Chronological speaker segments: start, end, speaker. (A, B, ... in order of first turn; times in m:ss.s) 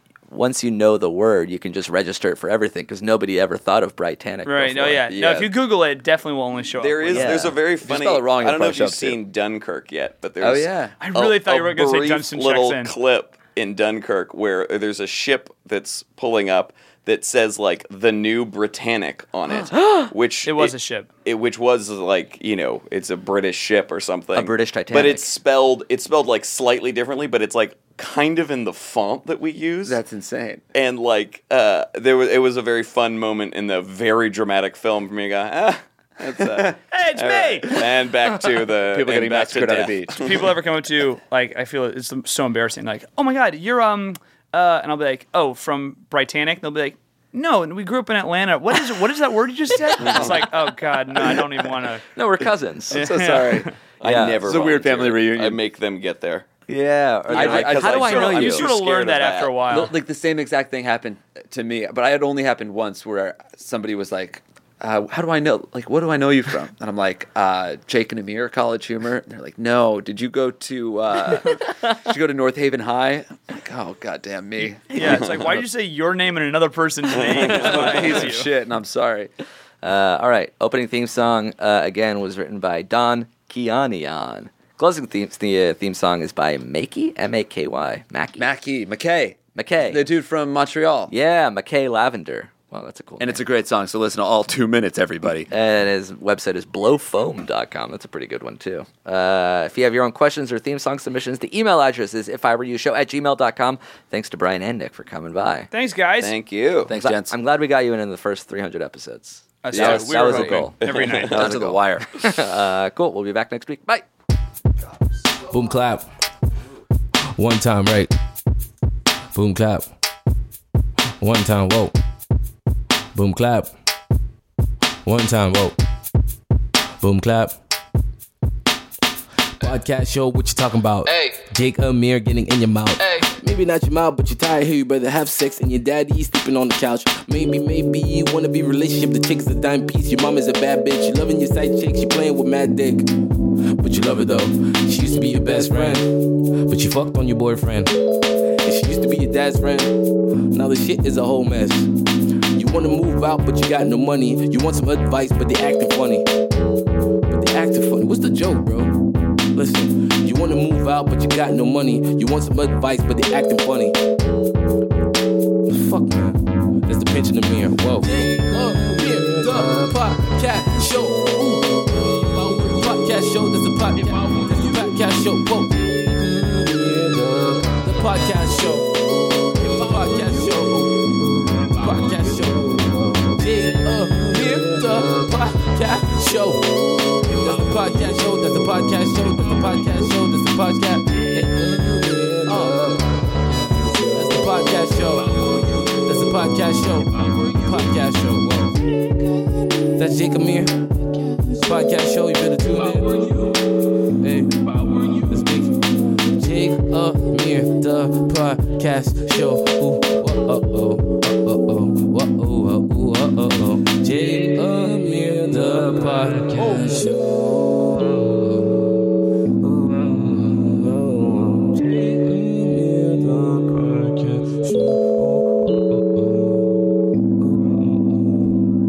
0:00.3-0:05.1 A
0:04.4-0:07.4 B
0:05.1-0:05.5 C
0:06.8-0:20.7 C
0:07.1-0:07.6 A
0:07.8-0:09.2 D
0:10.4-0:10.9 D
0:11.0-0:12.9 B
0:19.7-0:20.1 A
0:20.5-0:21.1 B
0:21.2-0:30.0 C
0:24.4-0:25.3 A
0:29.8-0:30.6 D
0:30.7-0:40.5 C
0:36.3-0:36.8 D
0:36.9-0:37.8 B
0:38.9-0:40.3 D
0:40.2-0:52.0 B
0:49.9-0:50.4 A
0:50.0-0:50.3 C
0:52.2-0:53.0 A
0:52.9-0:55.6 D
0:52.9-0:53.7 B
0:54.0-0:56.5 C
0:54.0-0:54.4 A
0:56.7-0:58.6 A
0:57.3-0:59.6 C
0:57.3-0:58.5 D
0:57.9-0:59.9 B
0:59.7-1:15.3 D
1:14.9-1:18.5 B
1:15.0-1:15.4 C
1:17.1-1:18.2 C
1:17.4-1:19.3 D
1:19.8-1:28.5 A
1:28.4-1:31.1 D
1:29.6-1:30.0 A
1:31.1-1:33.4 A
1:33.2-1:35.5 D
1:35.5-1:45.7 A
1:45.7-1:46.3 B
1:46.2-1:46.9 C
1:46.9-1:47.3 D
1:46.9-1:50.8 A
1:49.6-1:51.4 B
1:49.7-1:50.7 D
1:50.8-1:51.4 C
1:51.3-1:52.3 D
1:51.3-1:54.0 A
1:55.4-1:56.0 E
1:57.3-1:58.1 E
1:59.3-1:59.9 E
2:01.2-2:02.0 E
2:03.2-2:03.7 E
2:05.0-2:05.8 E
2:07.0-2:07.6 E
2:09.6-2:23.1 E
2:23.8-2:26.1 E
2:26.7-2:27.9 E
2:28.6-2:29.9 E
2:30.5-2:31.9 E
2:32.6-2:36.3 E
2:37.3-2:39.0 E
2:39.6-2:44.0 E
2:45.7-2:58.9 E
2:59.6-3:01.1 E
3:01.7-3:06.7 E
3:07.2-3:18.8 E
3:20.0-3:20.9 E
3:21.5-3:23.6 E
3:24.2-3:38.0 E
3:39.9-3:45.4 E